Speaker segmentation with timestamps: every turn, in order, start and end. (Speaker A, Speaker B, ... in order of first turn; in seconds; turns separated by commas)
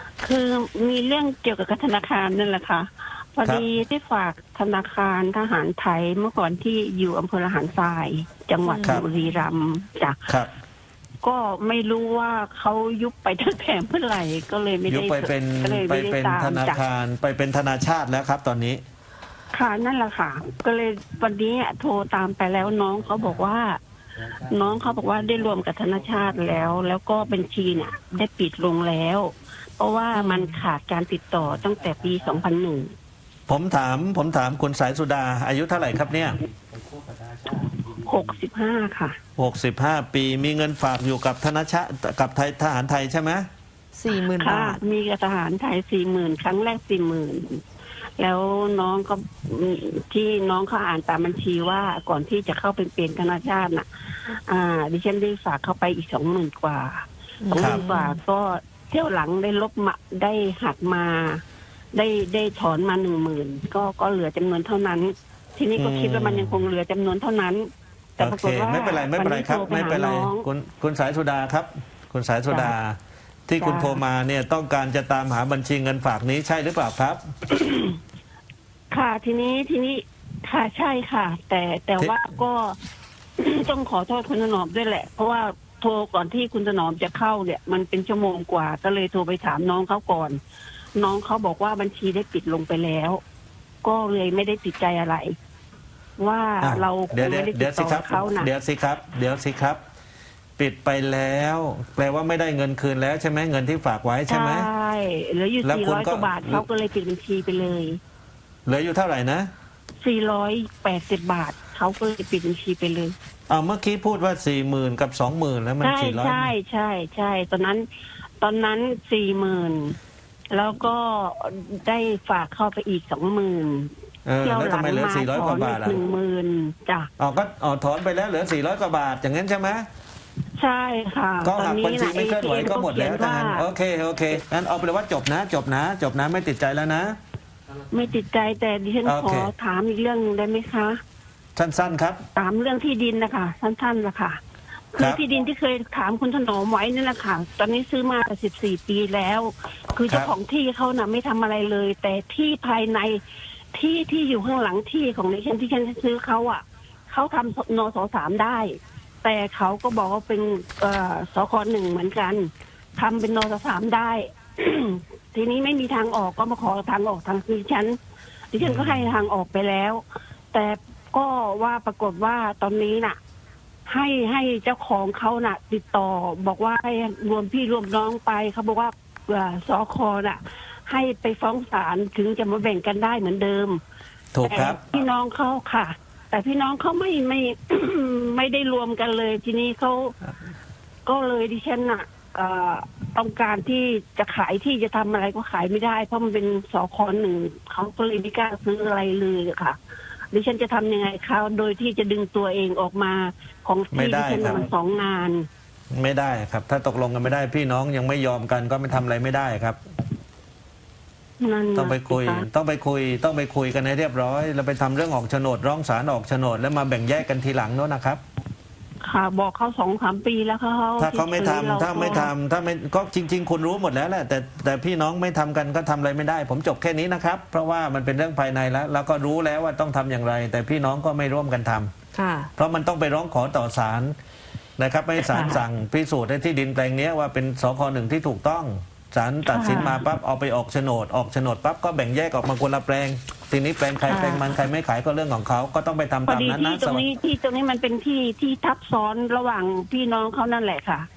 Speaker A: 0.2-10.2, Speaker B: 8.6-9.0, Speaker C: 10.3-10.5, Speaker A: 11.2-16.8, Speaker C: 14.9-18.8, Speaker A: 19.5-23.8, Speaker C: 23.0-23.4, Speaker C: 24.4-26.6, Speaker A: 24.4-32.9, Speaker B: 30.1-30.6, Speaker C: 31.6-32.4, Speaker C: 33.5-38.3, Speaker A: 38.0-39.2, Speaker C: 39.4-43.4, Speaker B: 43.9-44.8, Speaker A: 44.3-47.6, Speaker A: 48.2-61.4, Speaker B: 57.4-58.2, Speaker C: 57.5-57.8, Speaker A: 61.9-70.5, Speaker C: 65.8-66.7, Speaker C: 68.2-77.2, Speaker A: 73.6-74.0, Speaker A: 77.5-78.0, Speaker A: 78.9-82.8, Speaker A: 83.4-90.4, Speaker A: 91.0-93.2, Speaker A: 93.8-95.3, Speaker A: 96.2-98.5, Speaker C: 96.6-99.8, Speaker C: 100.6-104.7, Speaker A: 104.3-108.0, Speaker C: 105.6-106.6, Speaker C: 108.7-109.5, Speaker A: 110.0-113.1, Speaker C: 113.5-116.5, Speaker A: 115.8-117.9, Speaker A: 118.4-120.0, Speaker A: 120.5-127.1, Speaker C: 124.2-126.0, Speaker C: 127.2-129.8, Speaker A: 130.6-133.7, Speaker C: 131.4-137.2, Speaker A: 137.9-141.0, Speaker C: 139.0-139.5, Speaker C: 141.6-142.2, Speaker A: 142.3-144.4, Speaker A: 144.9-153.2, Speaker A: 153.7-167.9, Speaker A: 168.5-173.2, Speaker C: 168.6-169.1, Speaker A: 173.9-183.8, Speaker C: 184.3-184.8, Speaker A: 184.4-190.1, Speaker A: 191.1-199.8, Speaker A: 200.3-205.4, Speaker C: 203.9-204.7, Speaker C: 205.9-209.8, Speaker A: 211.4-212.4, Speaker C: 211.7-218.2, Speaker A: 219.0-222.3, Speaker C: 221.0-231.9, Speaker B: 232.1-232.5, Speaker C: 232.6-234.1, Speaker C: 234.8-247.0, Speaker B: 235.2-235.6, Speaker A: 239.5-240.0, Speaker B: 239.6-239.9, Speaker B: 244.1-244.5, Speaker A: 246.2-251.1